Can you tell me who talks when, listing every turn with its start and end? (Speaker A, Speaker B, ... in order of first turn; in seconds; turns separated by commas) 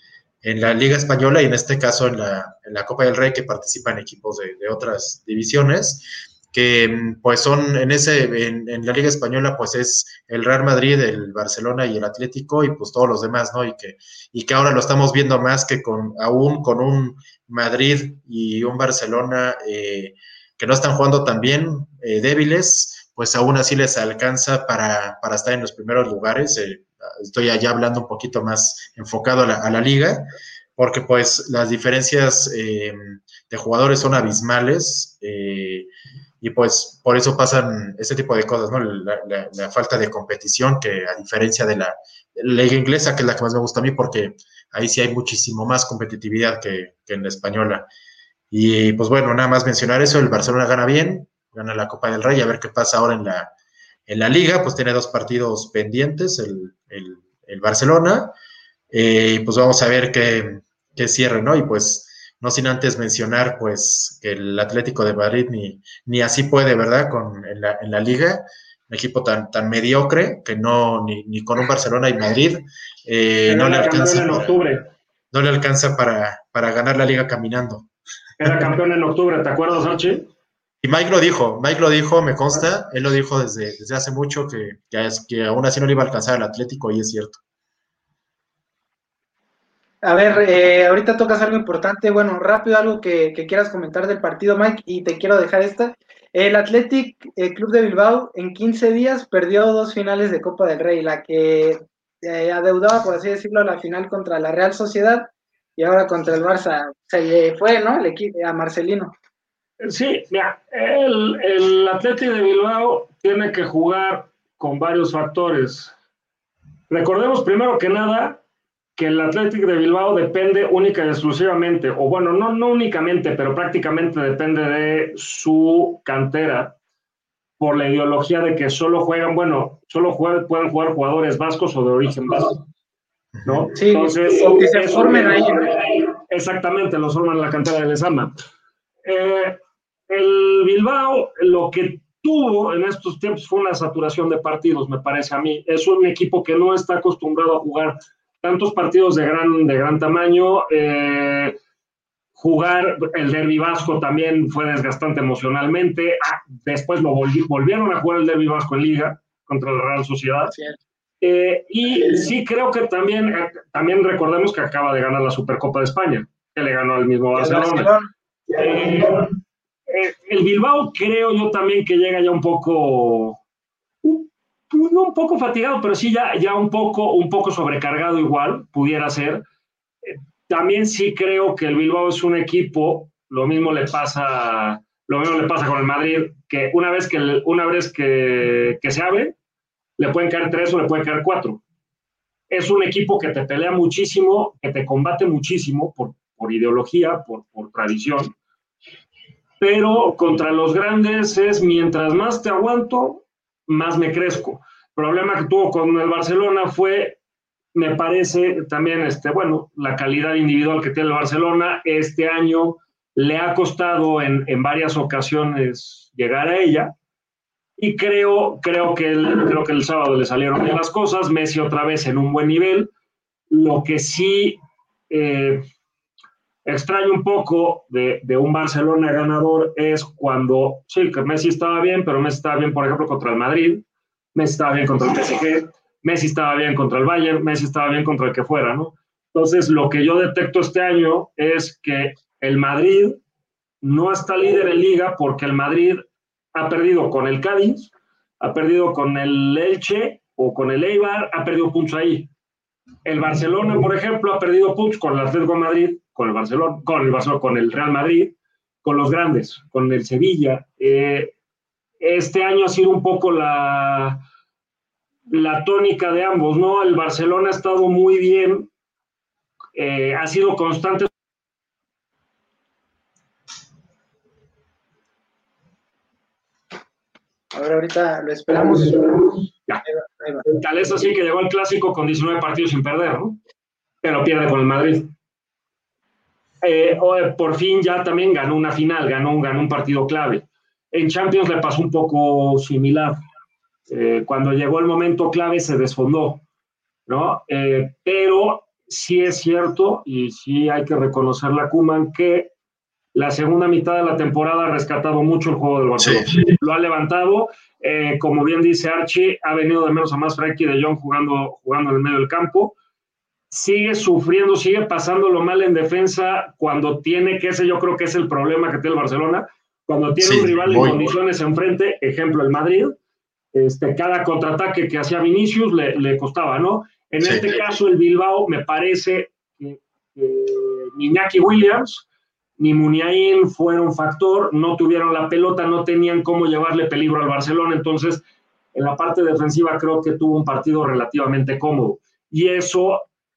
Speaker A: 0.4-30.2, Speaker A: 30.8-35.9, Speaker A: 36.4-47.9, Speaker A: 48.5-53.5, Speaker A: 54.1-58.3, Speaker A: 58.9-74.6, Speaker B: 73.5-74.9, Speaker A: 75.3-77.9, Speaker B: 78.4-80.3, Speaker A: 80.8-87.4, Speaker C: 90.0-109.1, Speaker B: 109.8-115.9, Speaker B: 116.9-118.4, Speaker B: 119.0-126.7, Speaker B: 127.6-132.6, Speaker A: 133.3-133.7, Speaker B: 133.4-138.3, Speaker C: 133.8-135.7, Speaker B: 139.0-151.5, Speaker B: 152.4-160.5, Speaker C: 160.5-160.8, Speaker B: 161.2-167.9, Speaker C: 167.3-168.1, Speaker B: 168.5-169.3, Speaker B: 169.9-173.4, Speaker B: 174.0-179.4, Speaker B: 180.0-189.3, Speaker B: 190.0-191.6, Speaker B: 192.5-198.3, Speaker B: 199.6-207.2, Speaker B: 207.7-216.9, Speaker B: 217.8-222.9, Speaker B: 223.5-224.6, Speaker B: 225.1-225.6, Speaker B: 226.6-233.8, Speaker B: 234.3-243.2, Speaker B: 243.8-252.3, Speaker B: 253.0-261.3, Speaker B: 262.0-264.2, Speaker B: 265.3-268.7, Speaker B: 269.7-271.1, Speaker C: 277.5-279.3, Speaker C: 279.9-280.4, Speaker B: 280.4-283.4, Speaker B: 284.0-285.1, Speaker B: 286.6-293.2, Speaker B: 293.9-296.4, Speaker B: 297.1-302.5, Speaker B: 303.1-312.8, Speaker B: 313.5-323.0, Speaker A: 320.2-321.0, Speaker B: 323.5-332.1, Speaker A: 327.2-327.5, Speaker B: 332.6-338.2, Speaker B: 338.7-343.0